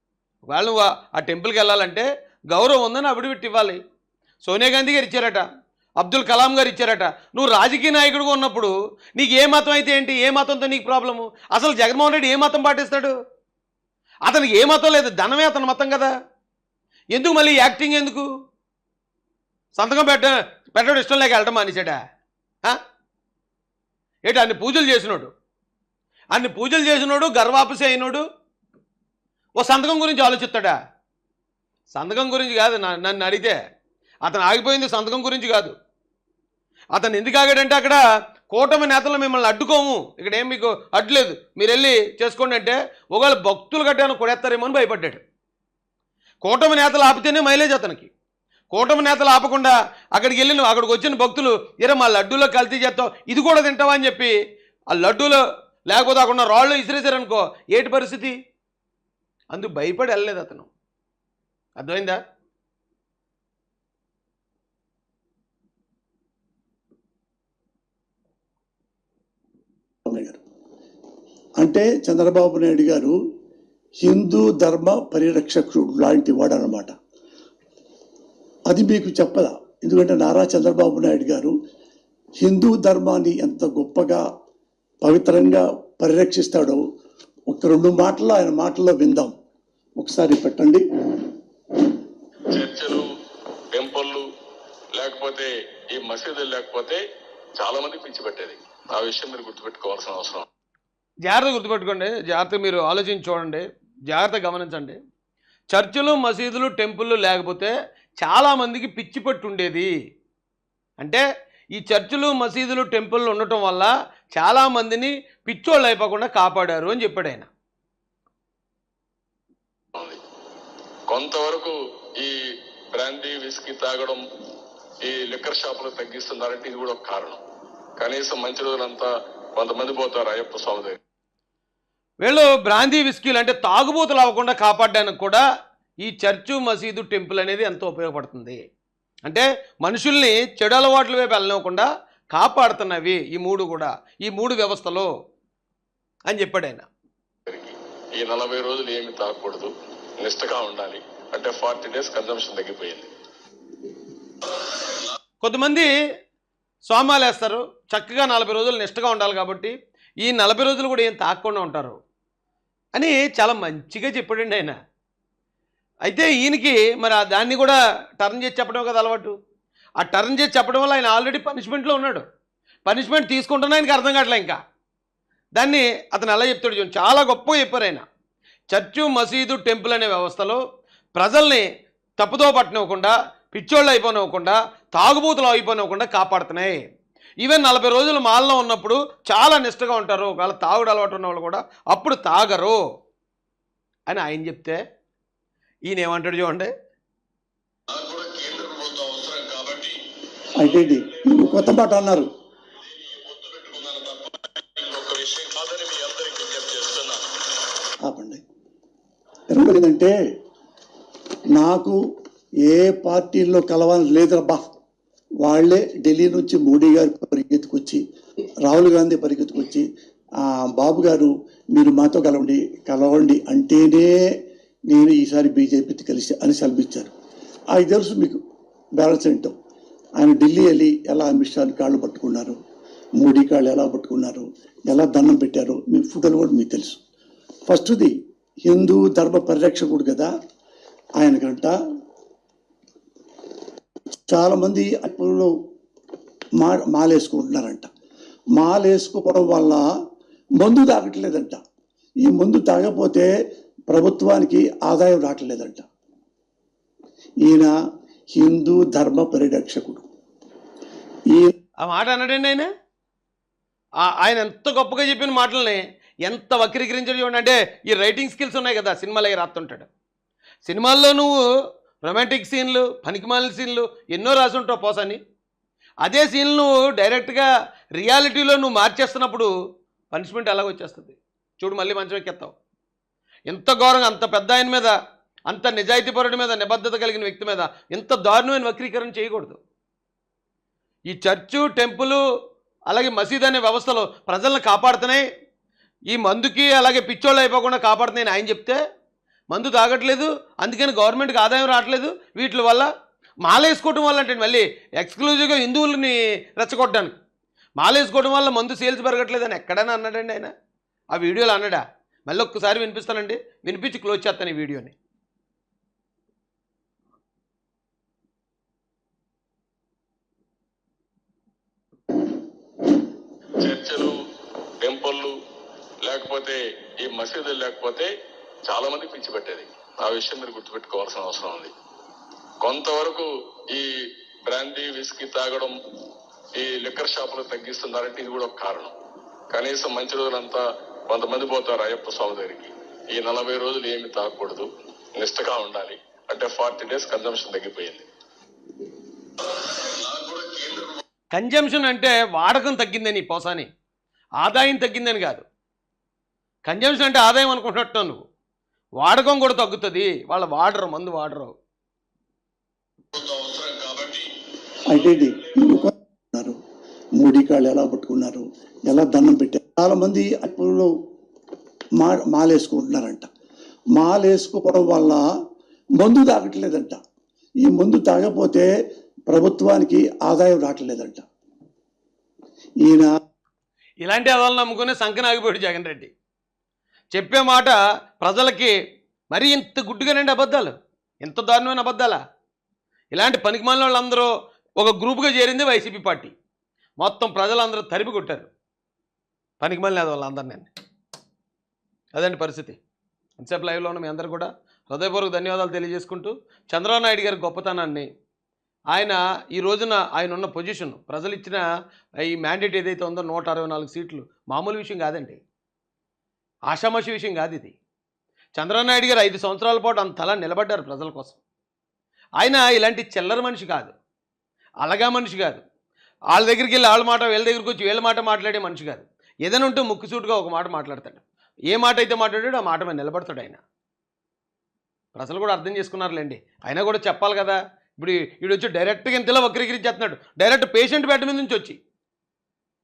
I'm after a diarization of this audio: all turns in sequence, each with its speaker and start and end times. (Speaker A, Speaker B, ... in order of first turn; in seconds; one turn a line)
Speaker A: 0.5-3.8
Speaker A: 4.4-5.4
Speaker A: 6.0-13.1
Speaker A: 14.2-16.1
Speaker A: 17.1-18.3
Speaker A: 19.8-22.0
Speaker A: 24.2-25.3
Speaker A: 26.3-28.2
Speaker A: 29.6-30.8
Speaker A: 31.9-33.6
Speaker A: 34.2-35.7
Speaker A: 36.9-45.2
Speaker A: 46.4-48.1
Speaker A: 48.7-54.3
Speaker A: 54.9-58.3
Speaker A: 59.5-60.7
Speaker A: 61.8-62.2
Speaker B: 70.1-70.4
Speaker B: 71.6-73.1
Speaker B: 74.0-76.9
Speaker B: 78.7-81.5
Speaker B: 82.4-84.2
Speaker B: 85.0-86.8
Speaker B: 87.5-89.3
Speaker B: 90.0-90.8
Speaker C: 92.5-93.0
Speaker C: 93.7-94.2
Speaker C: 95.0-97.0
Speaker C: 97.6-100.4
Speaker A: 101.2-105.0
Speaker A: 105.7-109.9
Speaker A: 111.0-111.2
Speaker A: 111.8-117.5
Speaker C: 121.1-122.3
Speaker C: 122.9-124.2
Speaker C: 125.0-127.4
Speaker C: 128.0-131.0
Speaker A: 132.2-135.4
Speaker A: 136.0-138.6
Speaker A: 139.2-145.1
Speaker A: 146.3-146.9
Speaker C: 147.5-149.7
Speaker C: 150.2-153.1
Speaker A: 155.4-155.9
Speaker A: 156.9-162.0
Speaker A: 162.9-164.8
Speaker A: 166.1-169.3
Speaker A: 170.0-172.2
Speaker A: 172.8-174.6
Speaker A: 175.6-178.0
Speaker A: 178.7-180.6
Speaker A: 181.2-181.7
Speaker A: 182.2-186.8
Speaker A: 187.4-192.8
Speaker A: 194.1-194.8
Speaker A: 195.8-196.7
Speaker C: 197.9-200.0
Speaker B: 200.6-202.3
Speaker C: 200.6-201.4
Speaker C: 202.8-207.2
Speaker B: 208.1-208.4
Speaker B: 209.5-210.1
Speaker B: 211.5-212.0
Speaker B: 212.6-214.7
Speaker B: 215.4-218.0
Speaker B: 218.6-219.8
Speaker B: 220.4-224.2
Speaker B: 224.9-227.1
Speaker B: 227.7-228.4
Speaker B: 229.0-229.5
Speaker B: 230.2-232.6
Speaker B: 233.2-237.0
Speaker B: 237.7-238.1
Speaker B: 238.7-240.3
Speaker B: 241.2-241.7
Speaker B: 244.3-245.5
Speaker B: 246.6-247.9
Speaker B: 248.6-249.8
Speaker B: 250.6-251.6
Speaker B: 252.2-253.3
Speaker B: 253.9-255.8
Speaker B: 257.4-257.7
Speaker B: 258.3-260.1
Speaker A: 261.8-262.7
Speaker A: 264.0-269.9
Speaker A: 270.6-271.3
Speaker A: 272.0-275.2
Speaker A: 276.0-279.5
Speaker A: 280.1-282.5
Speaker A: 283.5-284.9
Speaker A: 285.5-289.6
Speaker A: 291.1-292.2
Speaker A: 292.9-295.2
Speaker A: 296.1-298.8
Speaker A: 299.5-302.9
Speaker A: 303.4-307.2
Speaker A: 307.8-310.5
Speaker A: 311.1-314.9
Speaker C: 323.6-324.1
Speaker C: 324.8-325.3
Speaker C: 326.1-328.1
Speaker C: 328.7-331.7
Speaker C: 332.6-333.9
Speaker C: 334.5-335.7
Speaker C: 336.6-338.9
Speaker C: 339.5-344.7
Speaker C: 345.2-348.1
Speaker C: 349.6-351.0
Speaker A: 351.3-353.7
Speaker A: 354.4-355.4
Speaker A: 356.7-358.2
Speaker A: 359.0-361.5
Speaker C: 363.1-364.3
Speaker B: 364.9-366.6
Speaker B: 367.2-370.9
Speaker B: 372.0-373.3
Speaker B: 374.0-375.2
Speaker B: 376.0-377.0
Speaker B: 377.6-378.7
Speaker B: 379.3-381.2
Speaker B: 382.8-383.1
Speaker A: 384.0-386.1
Speaker A: 387.1-388.7
Speaker A: 389.3-392.2
Speaker A: 393.1-396.3
Speaker A: 397.0-398.5
Speaker A: 399.6-400.7
Speaker A: 402.1-402.8
Speaker A: 403.4-408.1
Speaker A: 408.9-411.6
Speaker A: 412.2-415.4
Speaker A: 416.7-417.8
Speaker A: 418.6-421.4
Speaker A: 422.4-423.9
Speaker A: 424.8-425.6
Speaker A: 426.3-433.6
Speaker A: 435.1-441.8